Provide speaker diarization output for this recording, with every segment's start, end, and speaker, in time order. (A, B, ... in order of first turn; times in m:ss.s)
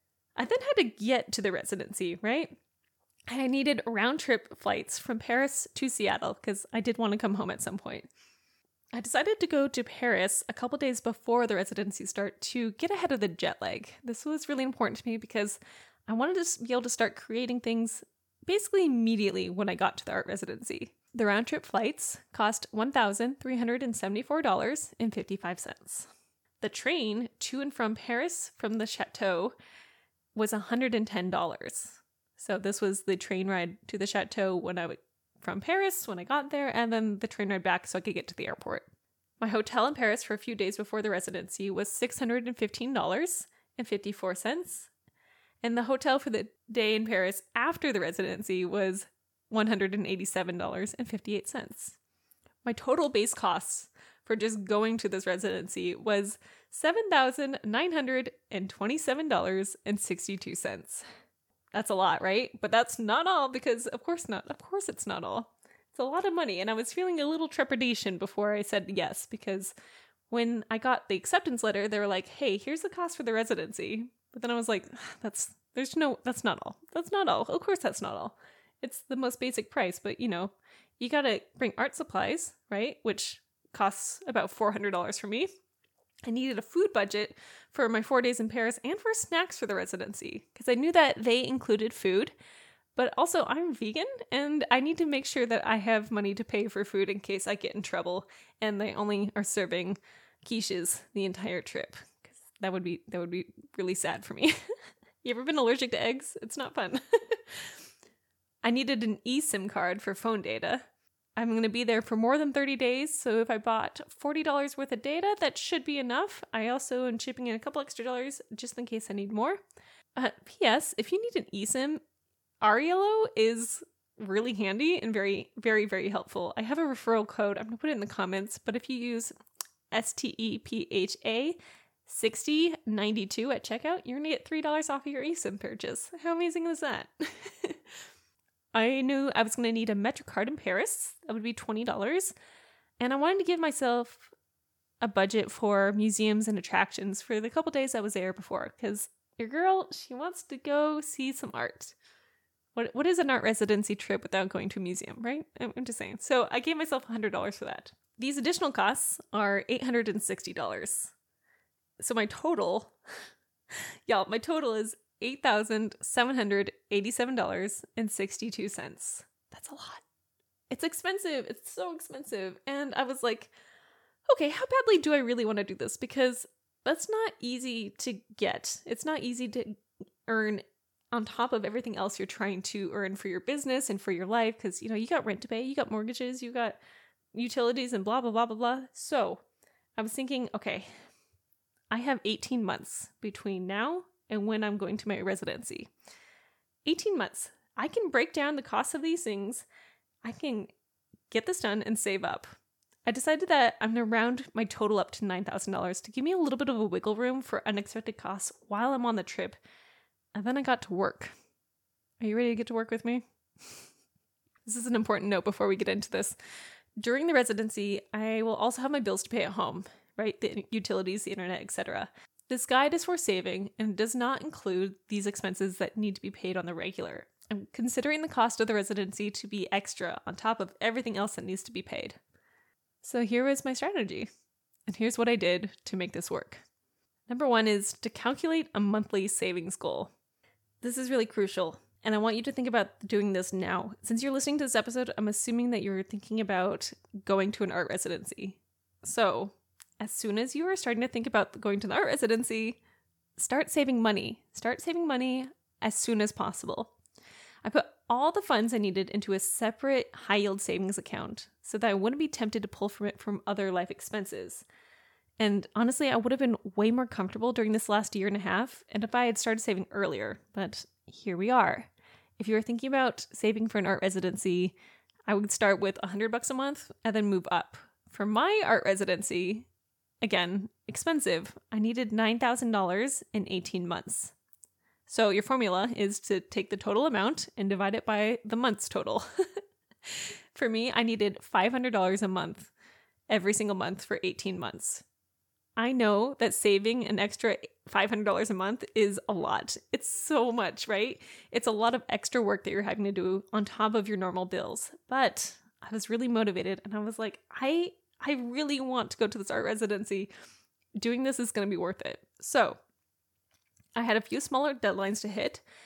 0:00.4-0:02.6 A
0:03.3-0:08.1 A
0:08.9-0:26.1 A
0:26.6-0:29.5 A
0:30.3-0:38.9 A
0:39.4-0:44.9 A
0:45.6-0:52.0 A
0:52.6-1:01.0 A
1:01.7-1:09.7 A
1:10.3-1:25.5 A
1:26.2-1:32.3 A
1:32.9-1:44.5 A
1:45.2-1:47.8 A
1:48.6-1:50.8 A
1:51.4-1:59.6 A
2:00.2-2:02.0 A
2:02.6-2:09.3 A
2:09.9-2:17.8 A
2:18.7-2:22.3 A
2:23.0-2:24.3 A
2:25.0-2:32.0 A
2:32.7-2:41.1 A
2:42.0-2:42.9 A
2:44.1-2:50.0 A
2:50.7-2:53.5 A
2:54.3-3:06.8 A
3:07.3-3:09.4 A
3:10.0-3:10.9 A
3:11.9-3:15.9 A
3:16.8-3:19.7 A
3:20.2-3:20.7 A
3:21.3-3:29.6 A
3:30.3-3:31.3 A
3:32.2-3:33.8 A
3:34.6-3:36.4 A
3:37.0-3:52.2 A
3:53.0-3:54.3 A
3:54.9-3:56.6 A
3:57.3-4:00.1 A
4:00.8-4:12.8 A
4:13.4-4:17.0 A
4:17.6-4:24.6 A
4:25.4-4:34.8 A
4:35.3-4:39.7 A
4:40.2-4:44.3 A
4:45.1-4:49.2 A
4:50.5-4:52.7 A
4:53.3-4:55.0 A
4:55.8-5:10.3 A
5:11.0-5:12.8 A
5:14.0-5:15.6 A